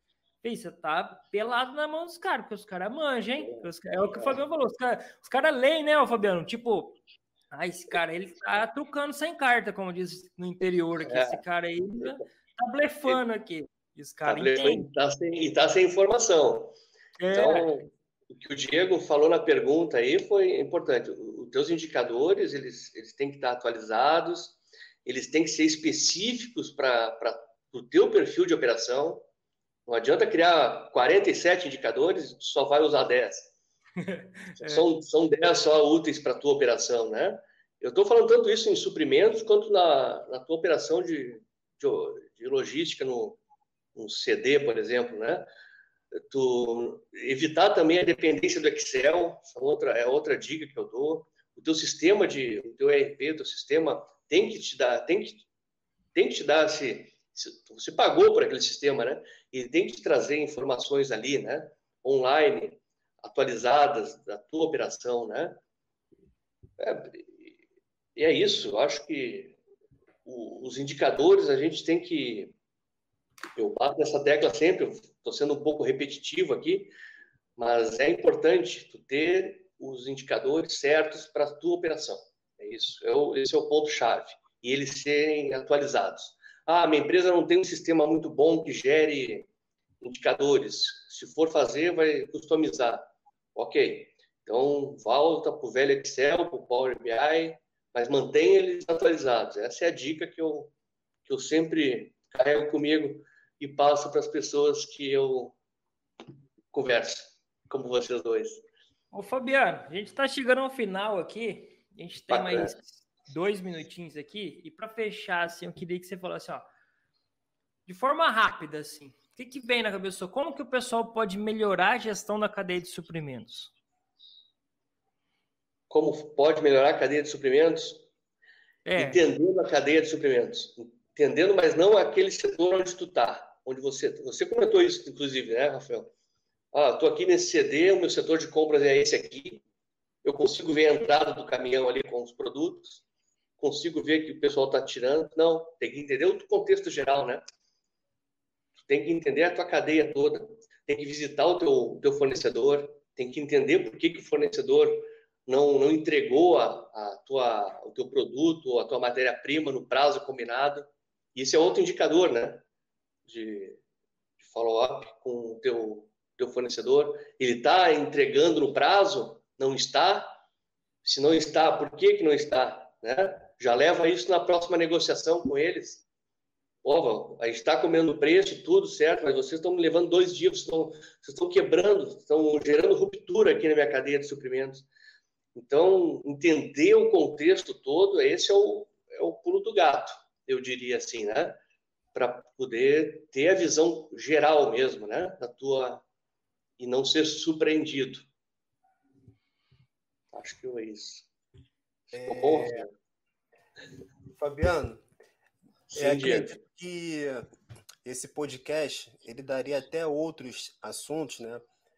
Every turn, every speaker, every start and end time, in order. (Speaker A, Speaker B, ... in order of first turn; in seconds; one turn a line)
Speaker A: 0.4-7.0
Speaker B: 3.4-4.4
Speaker A: 7.5-14.9
Speaker B: 11.0-11.4
Speaker B: 14.2-16.7
Speaker A: 17.2-17.7
Speaker B: 17.3-29.2
Speaker B: 29.9-33.5
Speaker A: 34.0-34.8
Speaker B: 34.6-43.4
Speaker B: 44.0-45.4
Speaker B: 46.3-55.5
Speaker B: 56.1-65.6
Speaker B: 66.8-67.5
Speaker B: 68.2-69.5
Speaker B: 70.2-72.5
Speaker B: 73.6-76.9
Speaker B: 77.6-89.5
Speaker B: 90.0-100.7
Speaker B: 101.2-105.5
Speaker B: 106.7-108.7
Speaker A: 109.1-116.7
Speaker B: 112.3-112.7
Speaker A: 117.9-123.7
Speaker B: 125.9-128.0
Speaker A: 128.8-129.2
Speaker B: 128.9-136.1
Speaker B: 136.7-139.6
Speaker B: 140.2-143.0
Speaker B: 143.6-147.4
Speaker B: 148.8-162.6
Speaker B: 163.2-163.8
Speaker B: 164.4-170.4
Speaker B: 171.0-176.0
Speaker B: 176.8-184.9
Speaker B: 185.5-191.6
Speaker B: 192.1-196.0
Speaker B: 196.8-198.3
Speaker B: 200.3-201.3
Speaker B: 202.1-202.9
Speaker C: 202.1-202.8
Speaker C: 204.3-205.0
Speaker B: 205.9-206.6
Speaker C: 205.9-207.4
Speaker C: 208.0-211.6